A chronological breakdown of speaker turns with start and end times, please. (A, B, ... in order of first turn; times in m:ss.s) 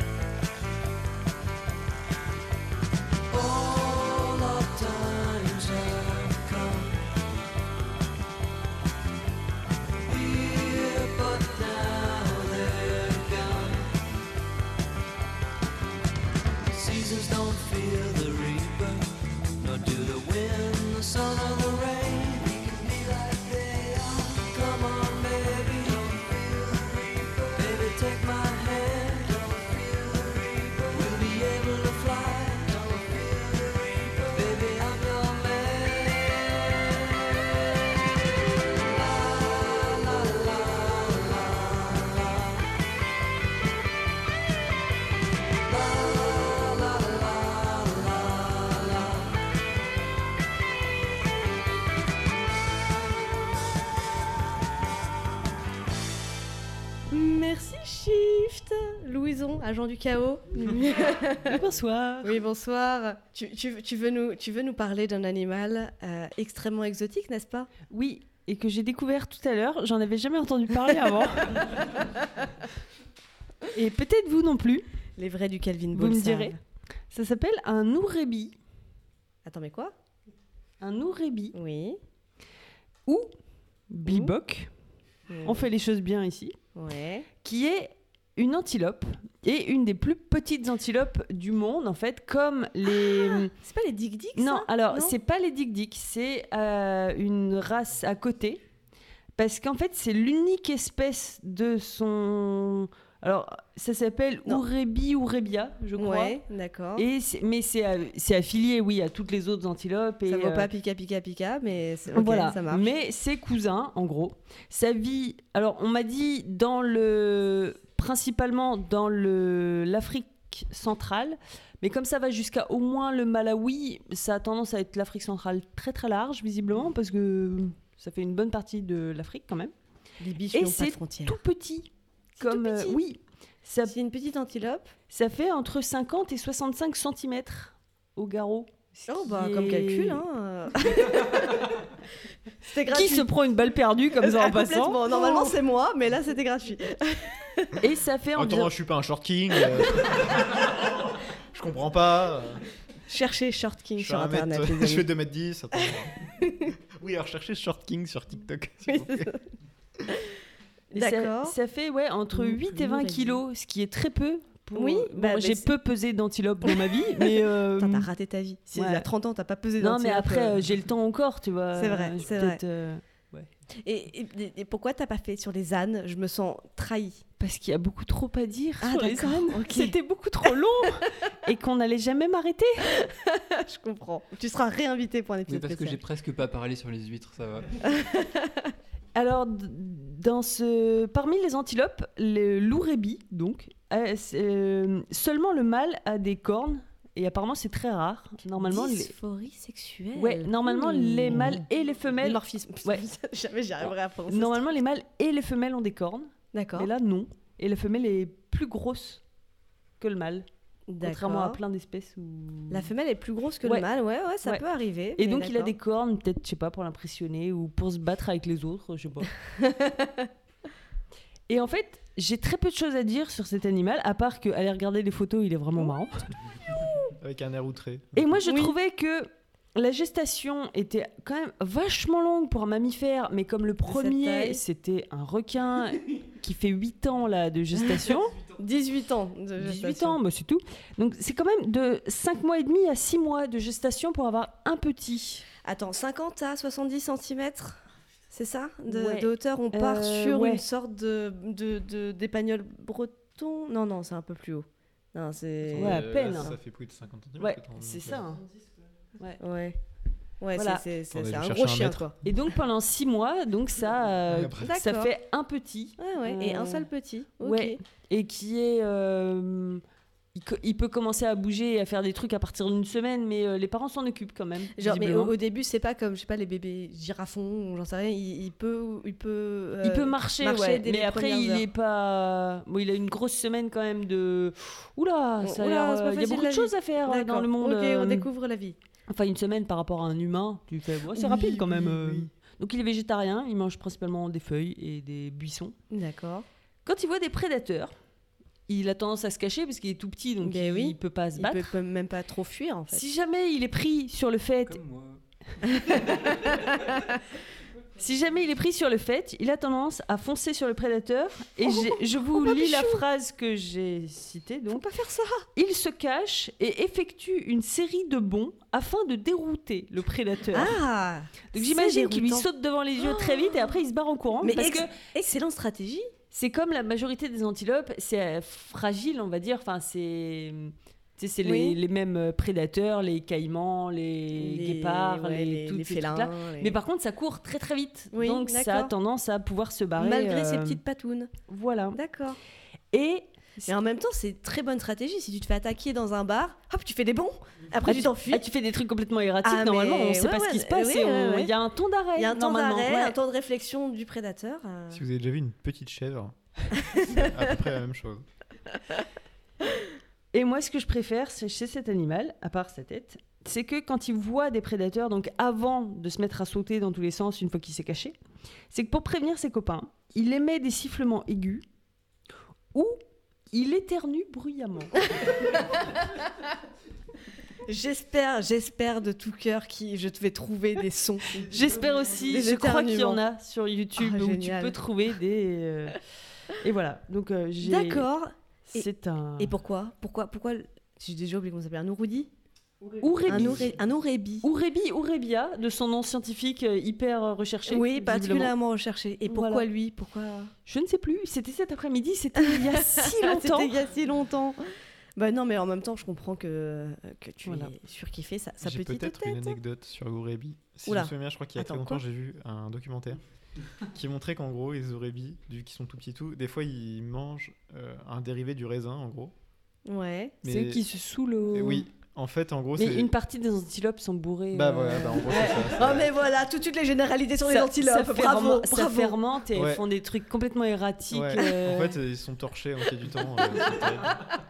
0:03.3-0:07.0 A
0:10.0-0:13.9 A
0:16.7-0:19.1 A
0:19.6-0:37.0 A
0:38.8-0:42.6 A
0:45.7-0:49.2 A
0:57.1-1:01.6 B
1:01.4-1:02.4 C
1:02.2-1:07.7 B
1:07.9-1:11.8 C
1:13.8-1:14.8 C
1:15.2-1:16.6 B
1:15.9-1:16.6 C
1:17.1-1:18.6 C
1:19.5-1:19.9 B
1:20.8-1:21.5 C
1:21.5-1:22.0 B
1:23.1-1:23.3 C
1:23.9-1:24.7 C
1:24.1-1:24.3 B
1:25.3-1:25.7 B
1:25.4-1:26.6 C
1:26.8-1:27.3 B
1:27.4-1:33.5 C
1:33.0-1:35.1 B
1:34.4-1:38.6 C
1:39.4-1:46.4 C
1:46.0-1:47.1 B
1:47.0-1:50.7 C
1:50.3-1:52.9 B
1:52.1-2:09.7 C
2:10.2-2:11.4 B
2:10.5-2:13.9 C
2:12.4-2:13.0 B
2:13.8-2:15.0 B
2:15.1-2:20.2 C
2:19.1-2:21.7 B
2:22.6-2:23.3 B
2:22.9-2:25.6 C
2:24.2-2:27.8 B
2:27.8-2:28.7 C
2:28.4-2:30.6 D
2:31.5-2:32.6 D
2:33.1-2:35.1 B
2:34.0-2:36.1 D
2:36.4-2:36.7 B
2:36.9-2:39.3 D
2:38.9-2:39.4 B
2:40.9-2:41.6 B
2:40.9-2:48.1 C
2:42.3-2:43.4 B
2:44.8-2:45.7 B
2:46.7-2:50.6 B
2:48.8-2:49.1 C
2:49.8-2:53.5 C
2:51.8-2:52.6 B
2:53.8-2:57.2 B
2:57.4-3:02.8 C
2:58.8-3:00.5 B
3:03.0-3:06.0 B
3:05.5-3:07.8 E
3:07.9-3:08.7 B
3:09.1-3:19.1 C
3:18.6-3:24.8 B
3:20.2-3:23.0 C
3:24.3-3:29.2 C
3:26.5-3:26.9 B
3:30.0-3:30.5 C
3:30.9-3:31.6 B
3:31.0-3:32.9 C
3:32.7-3:35.8 B
3:35.2-3:39.3 C
3:39.6-3:40.3 B
3:41.5-3:46.3 C
3:47.2-3:48.4 D
3:48.1-3:58.4 C
3:48.5-3:48.8 B
3:53.9-3:54.6 B
3:58.5-4:00.2 B
3:59.6-4:05.4 C
4:05.6-4:07.8 B
4:08.3-4:16.6 B
4:08.9-4:10.6 C
4:15.7-4:18.3 D
4:15.8-4:16.5 C
4:17.4-4:18.4 C
4:19.4-4:19.8 B
4:20.4-4:22.1 B
4:20.6-4:20.9 C
4:21.1-4:22.1 D
4:22.2-4:26.9 C
4:24.3-4:24.8 D
4:24.6-4:25.1 B
4:26.0-4:27.8 B
4:27.4-4:29.8 C
4:30.4-4:35.3 C
4:34.8-4:41.7 B
4:39.8-4:48.3 C
4:45.4-4:48.8 B
4:49.1-4:55.8 C
4:51.1-4:52.3 B
4:55.9-4:56.5 B
4:56.8-4:58.0 C
4:58.7-5:01.8 C
5:00.4-5:03.0 B
5:02.9-5:04.8 C
5:04.7-5:05.2 E
5:05.7-5:07.1 B
5:05.9-5:06.7 C
5:08.0-5:14.9 C
5:11.6-5:13.0 B
5:14.7-5:15.5 B
5:15.6-5:20.8 C
5:20.5-5:22.5 B
5:21.5-5:24.9 C
5:23.0-5:23.8 B
5:24.4-5:26.1 B
5:26.3-5:40.8 C
5:31.4-5:31.8 B
5:34.4-5:36.8 B
5:38.1-5:38.9 B
5:40.0-5:41.3 B
5:41.5-5:42.0 C
5:41.9-5:42.4 B
5:42.9-5:43.7 C
5:43.7-5:48.4 B
5:47.8-5:53.2 C
5:49.4-5:51.5 B
5:52.2-5:55.0 B
5:54.9-5:56.4 D
5:56.9-5:57.3 B
5:57.0-5:58.2 D
6:00.3-6:08.1 C
6:08.7-6:11.6 C
6:12.7-6:13.0 C
6:13.5-6:15.0 C
6:15.1-6:15.8 B
6:17.7-6:21.5 B
6:21.3-6:26.0 C
6:22.2-6:23.2 B
6:24.0-6:24.8 B
6:26.5-6:28.1 C
6:27.6-6:32.3 B
6:28.7-6:29.6 C
6:33.0-6:33.8 C
6:33.3-6:34.5 B
6:34.4-6:38.5 C
6:37.7-6:40.5 B
6:39.3-6:39.7 C
6:40.7-6:43.7 C
6:42.6-6:44.6 B
6:45.2-6:49.6 B
6:47.4-6:47.7 C
6:48.6-6:53.2 D
6:50.9-6:52.0 B
6:53.9-6:59.3 D
6:59.9-7:00.4 B
7:00.4-7:00.8 D
7:00.4-7:01.9 C
7:01.5-7:03.1 D
7:02.8-7:06.0 C
7:04.5-7:06.1 D
7:05.3-7:09.2 B
7:07.4-7:12.0 C
7:09.5-7:09.8 D
7:11.1-7:14.2 D